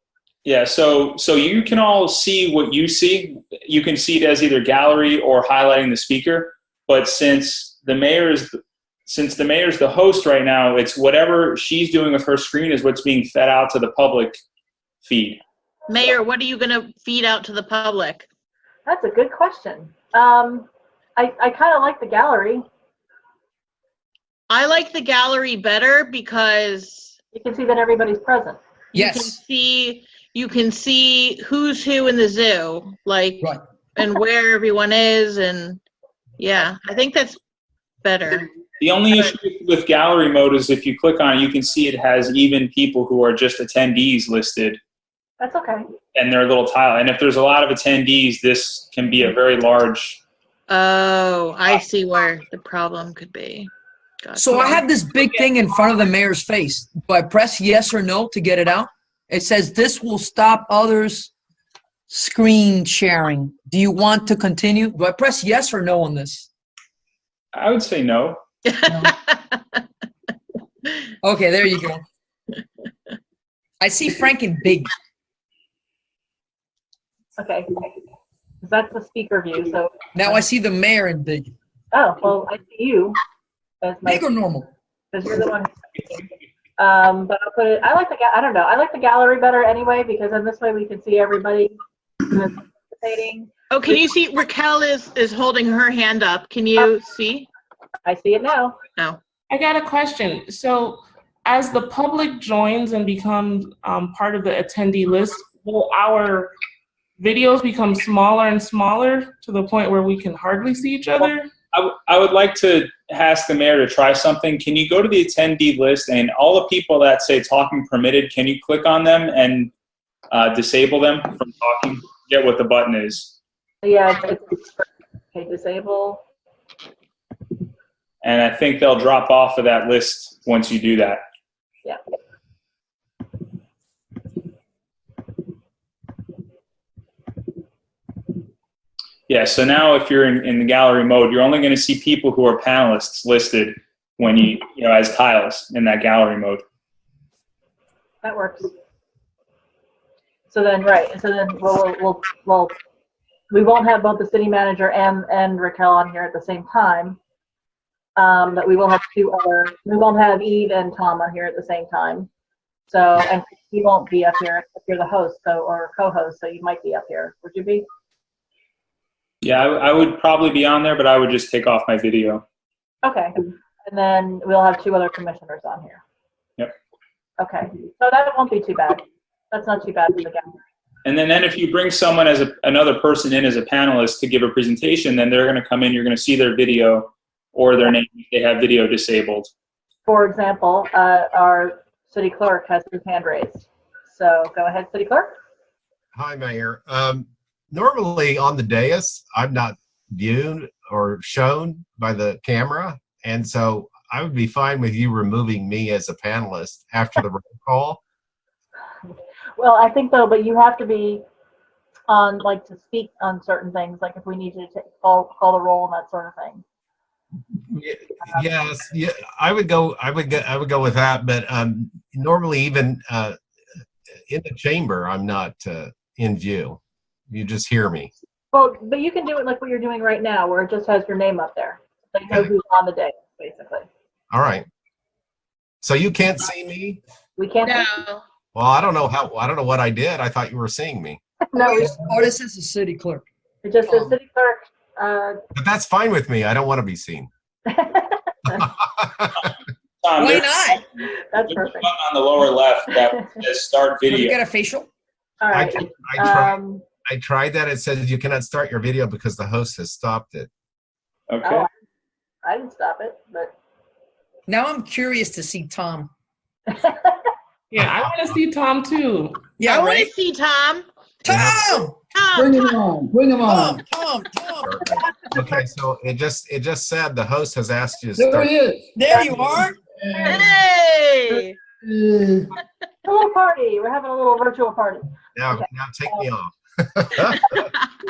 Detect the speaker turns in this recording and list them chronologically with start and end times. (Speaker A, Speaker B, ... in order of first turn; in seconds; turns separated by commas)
Speaker A: 0.4-8.6, Speaker A: 9.1-14.4, Speaker A: 15.0-15.4, Speaker B: 15.9-18.3, Speaker C: 18.9-22.6, Speaker B: 24.5-27.1, Speaker C: 27.3-28.6, Speaker D: 28.9-29.4, Speaker B: 28.9-35.8, Speaker B: 36.4-37.4, Speaker B: 38.0-38.5, Speaker A: 38.8-44.8, Speaker C: 45.4-45.8, Speaker A: 46.1-50.2, Speaker B: 50.7-53.7, Speaker B: 54.2-54.8, Speaker D: 54.4-61.3, Speaker D: 62.1-66.5, Speaker A: 67.5-68.4, Speaker B: 68.6-69.8, Speaker D: 71.2-72.0, Speaker D: 73.8-74.9, Speaker C: 77.4-77.9, Speaker C: 78.6-80.4, Speaker D: 80.1-81.5, Speaker C: 81.9-83.2, Speaker C: 83.8-84.3, Speaker D: 84.0-84.7, Speaker C: 85.1-86.2, Speaker C: 86.8-93.5, Speaker B: 93.7-97.5, Speaker C: 98.0-98.8, Speaker E: 99.5-106.5, Speaker E: 107.2-111.5, Speaker A: 111.7-119.7, Speaker A: 120.3-123.3, Speaker C: 123.8-126.2, Speaker A: 128.2-131.2, Speaker A: 139.3-146.6, Speaker C: 148.2-148.7, Speaker C: 150.5-152.7, Speaker C: 153.5-157.2, Speaker C: 158.2-162.3, Speaker C: 162.9-167.8, Speaker A: 169.4-172.4, Speaker C: 173.0-176.0, Speaker C: 177.4-180.5, Speaker A: 181.0-189.5, Speaker C: 190.0-195.3, Speaker F: 196.1-208.0, Speaker C: 209.6-211.2, Speaker C: 212.1-216.6, Speaker F: 217.7-223.4, Speaker F: 224.3-226.8, Speaker F: 227.3-228.1, Speaker C: 228.5-233.9, Speaker F: 234.3-234.7, Speaker F: 235.8-237.0, Speaker C: 237.3-237.9, Speaker B: 237.6-238.2, Speaker F: 238.5-241.2, Speaker C: 241.5-242.0, Speaker D: 241.6-243.2, Speaker C: 243.6-245.4, Speaker D: 243.9-244.2, Speaker F: 245.5-247.3, Speaker C: 247.7-248.7, Speaker F: 248.6-249.5, Speaker A: 250.0-250.8, Speaker D: 250.2-250.8, Speaker C: 251.0-251.9, Speaker A: 251.5-254.4, Speaker D: 254.1-254.9, Speaker C: 255.4-256.8, Speaker F: 255.5-260.5, Speaker A: 261.3-261.7, Speaker C: 262.4-263.5, Speaker D: 264.5-266.1, Speaker C: 266.7-267.3, Speaker E: 267.7-269.5, Speaker F: 267.8-268.4, Speaker D: 269.6-270.1, Speaker B: 269.6-270.9, Speaker D: 271.2-272.0, Speaker F: 271.2-271.8, Speaker B: 272.1-272.8, Speaker G: 272.3-273.9, Speaker D: 273.4-274.8, Speaker F: 274.6-278.5, Speaker G: 278.2-280.5, Speaker D: 278.9-279.8, Speaker B: 280.3-281.6, Speaker G: 281.8-282.5, Speaker C: 283.0-286.3, Speaker F: 285.3-287.7